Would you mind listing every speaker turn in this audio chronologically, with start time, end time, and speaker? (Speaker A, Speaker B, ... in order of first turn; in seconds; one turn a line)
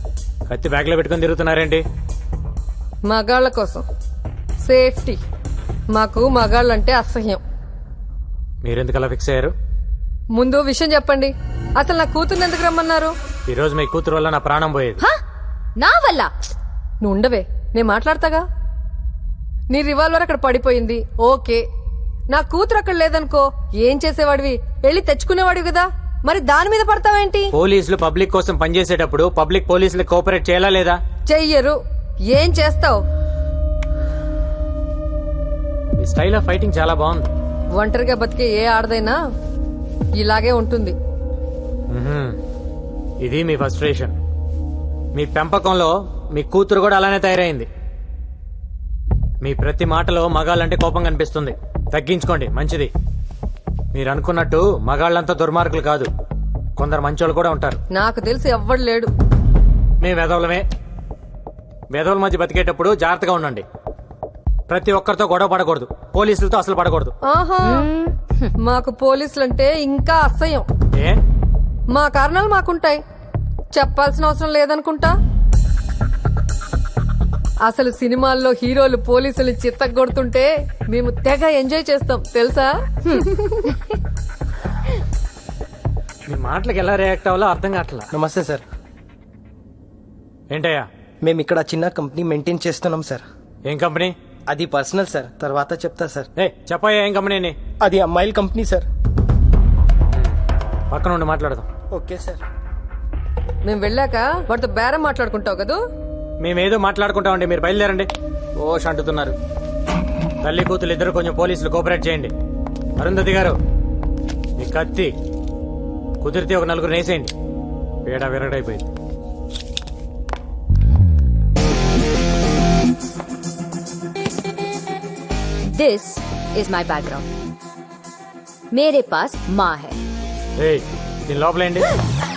Speaker A: 0.5-1.8
Speaker B: 3.1-3.8
Speaker B: 4.6-5.2
Speaker B: 5.9-7.4
Speaker A: 8.6-9.5
Speaker B: 10.3-13.1
Speaker A: 13.5-15.0
Speaker C: 15.8-16.3
Speaker B: 17.0-18.4
Speaker B: 19.7-21.6
Speaker B: 22.3-27.5
Speaker A: 27.5-31.0
Speaker B: 31.3-31.8
Speaker B: 32.3-33.0
Speaker A: 36.0-37.3
Speaker B: 37.8-39.2
Speaker B: 40.2-41.0
Speaker A: 41.9-42.4
Speaker A: 43.2-44.1
Speaker A: 45.1-47.7
Speaker A: 49.4-52.9
Speaker A: 53.9-56.1
Speaker A: 56.8-57.8
Speaker B: 57.9-59.1
Speaker A: 60.0-60.6
Speaker A: 61.9-63.6
Speaker A: 64.7-67.1
Speaker B: 67.2-67.8
Speaker C: 67.6-68.5
Speaker B: 68.6-70.6
Speaker B: 71.9-73.0
Speaker B: 73.7-75.1
Speaker B: 77.6-83.7
Speaker A: 86.3-88.1
Speaker D: 88.1-88.6
Speaker A: 90.5-90.9
Speaker D: 91.2-93.2
Speaker A: 93.7-94.1
Speaker D: 94.5-96.3
Speaker A: 96.3-97.5
Speaker D: 97.8-98.9
Speaker A: 100.9-101.7
Speaker D: 101.9-102.4
Speaker B: 103.6-105.8
Speaker A: 106.4-109.3
Speaker A: 110.4-112.3
Speaker A: 113.0-113.5
Speaker A: 114.6-115.1
Speaker A: 116.2-117.3
Speaker A: 118.0-118.9
Speaker C: 125.7-127.2
Speaker C: 128.7-130.0
Speaker A: 130.6-131.9